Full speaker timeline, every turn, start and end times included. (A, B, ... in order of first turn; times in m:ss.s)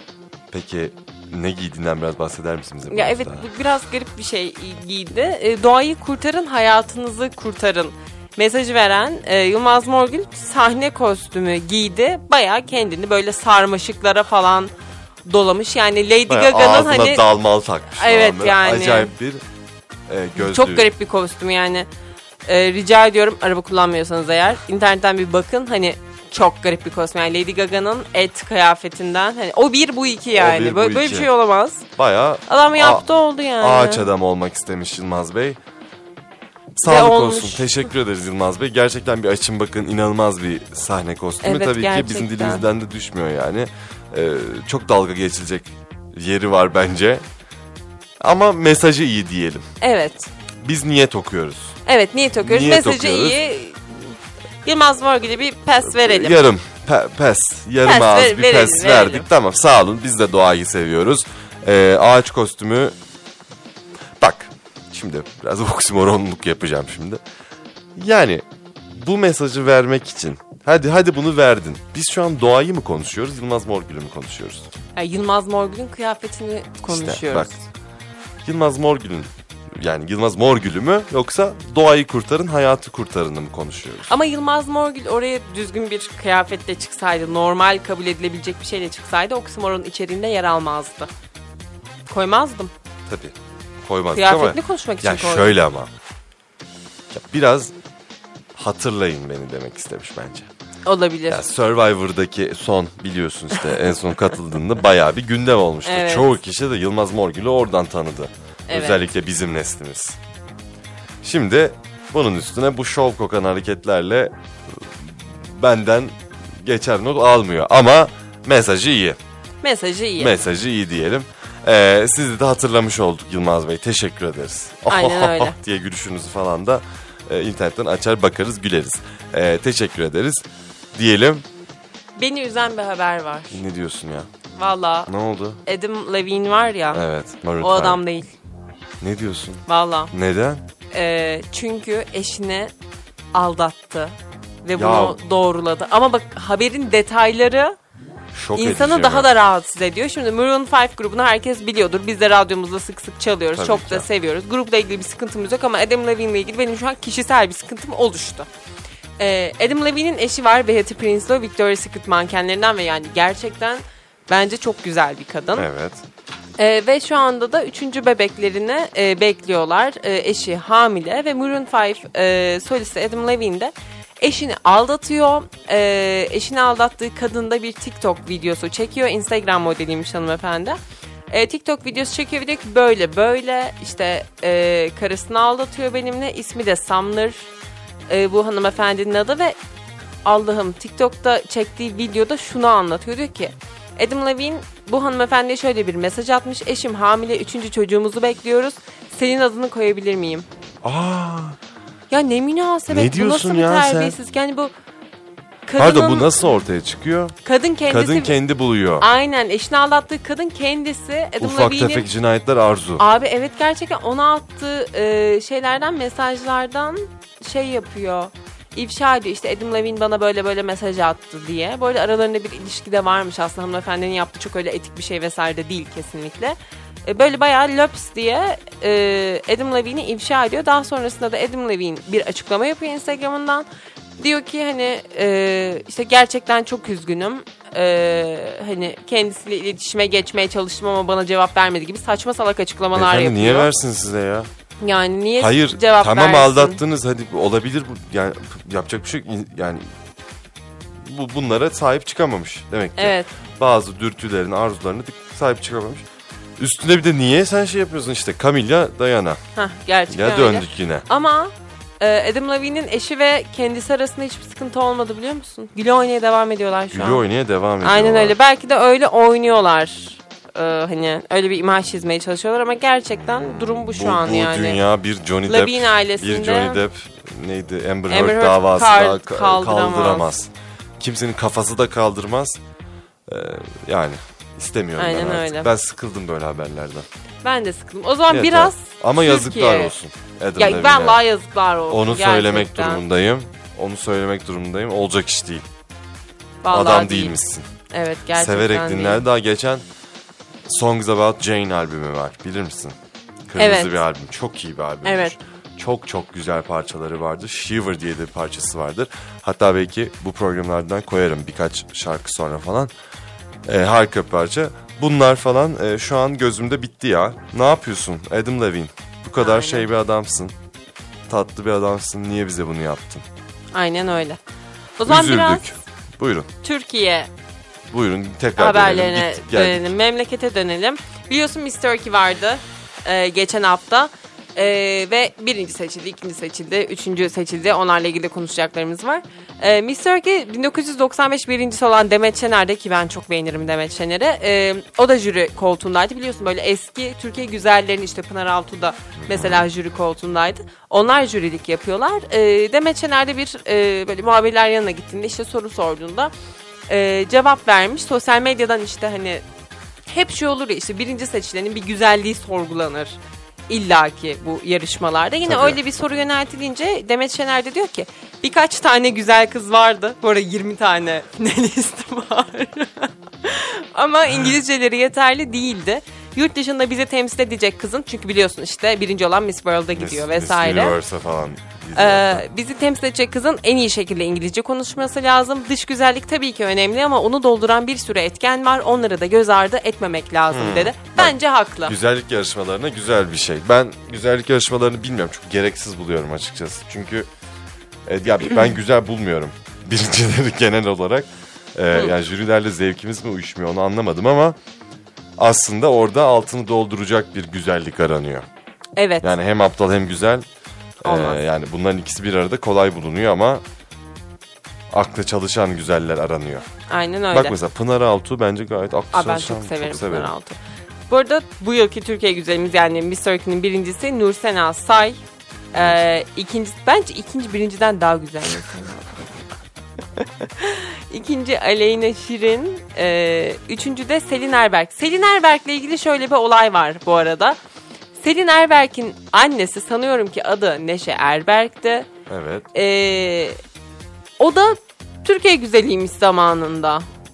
0:00.5-0:03.4 A
0:02.9-0:14.7 B
0:15.2-0:17.2 B
0:16.3-0:19.4 A
0:18.0-0:19.1 B
0:20.1-0:20.9 A
0:20.4-0:21.9 B
0:22.4-0:31.8 B
0:30.3-0:31.3 A
0:32.0-0:33.1 A
0:32.5-0:34.1 B
0:33.6-0:35.6 A
0:36.8-0:47.2 A
0:36.8-0:37.8 B
0:41.4-0:42.6 B
0:48.2-0:49.6 A
0:49.8-0:50.3 B
0:50.6-0:51.8 A
0:51.8-0:54.0 B
0:52.4-0:53.4 A
0:54.6-0:56.5 B
0:55.8-1:02.9 A
0:57.8-0:59.2 B
1:04.2-1:07.2 A
1:08.0-1:14.7 A
1:15.0-1:17.6 B
1:16.9-1:17.5 A
1:18.4-1:24.1 A
1:24.1-1:31.1 B
1:32.1-1:32.7 B
1:33.1-1:35.9 A
1:34.1-1:35.6 B
1:37.1-1:37.7 A
1:38.6-1:40.5 A
1:40.8-1:41.4 B
1:41.3-1:50.2 A
1:45.8-1:46.4 B
1:48.7-1:49.0 B
1:51.2-1:59.2 A
1:59.6-2:00.4 B
2:00.2-2:11.4 A
2:04.9-2:05.6 B
2:12.2-2:13.6 B
2:13.5-2:14.3 A
2:14.6-2:15.1 B
2:15.1-2:15.6 A
2:15.6-2:17.0 B
2:16.9-2:18.0 A
2:17.6-2:18.3 B
2:19.0-2:20.6 A
2:19.7-2:20.1 B
2:20.9-2:22.7 B
2:23.3-2:27.8 B
2:24.8-2:25.2 A
2:28.3-2:29.3 A
2:28.5-2:38.5 B
2:33.5-2:34.1 A
2:39.2-2:45.7 B
2:45.5-2:46.0 A
2:46.6-3:00.8 B
3:01.3-3:07.5 B
3:08.1-3:09.6 B
3:10.2-3:20.4 B
3:20.8-3:21.6 A
3:22.1-3:24.7 B
3:22.9-3:24.2 A
3:25.6-3:26.4 B
3:25.8-3:27.3 A
3:27.4-3:28.3 B
3:27.9-3:29.0 A
3:29.0-3:32.0 B
3:31.4-3:33.0 A
3:33.0-3:53.6 B
3:54.2-4:03.7 B
4:02.9-4:04.5 A
4:04.8-4:06.8 B
4:05.4-4:09.9 A
4:11.0-4:16.0 A
4:13.0-4:13.3 B
4:16.6-4:19.4 A
4:19.6-4:27.2 B
4:20.1-4:21.1 A
4:26.9-4:28.4 A
4:27.8-4:34.8 B
4:33.9-4:42.6 A
4:35.5-4:36.8 B
4:38.1-4:40.3 B
4:43.3-4:47.0 A
4:45.0-4:45.7 B
4:47.4-4:49.9 B
4:48.3-4:51.2 A
4:50.6-4:53.0 B
4:51.9-4:55.6 A
4:56.6-4:57.4 B
4:56.7-4:57.6 A
4:57.9-4:59.2 B
4:58.4-4:59.8 A
5:00.7-5:03.0 A
5:03.5-5:12.9 A
5:03.6-5:04.0 B
5:05.0-5:05.3 B
5:13.6-5:20.5 A
5:19.4-5:19.9 B
5:21.3-5:23.2 A
5:23.7-5:24.4 B
5:25.0-5:25.7 B
5:25.0-5:26.5 A
5:26.6-5:27.3 B
5:27.9-5:29.9 A
5:28.6-5:56.3 B
5:49.2-5:49.7 A
5:56.9-5:59.4 B
6:00.1-6:03.2 B
6:03.7-6:21.0 B
6:05.4-6:05.8 A
6:19.9-6:22.4 A
6:21.9-6:32.0 B
6:30.5-6:37.3 A
6:38.0-6:44.6 A
6:45.4-6:48.4 A
6:49.0-6:49.3 B
6:49.2-6:50.4 A
6:51.0-6:53.6 A
6:51.0-6:51.4 B
6:54.9-6:56.6 A
6:56.9-6:57.6 B
6:57.3-7:00.3 A
6:59.1-7:00.6 B
7:01.1-7:05.2 B
7:05.7-7:09.1 B
7:05.7-7:06.0 A
7:10.4-7:17.6 B
7:18.2-7:22.1 B
7:22.3-7:22.7 A
7:22.7-7:23.6 B
7:24.4-7:27.0 B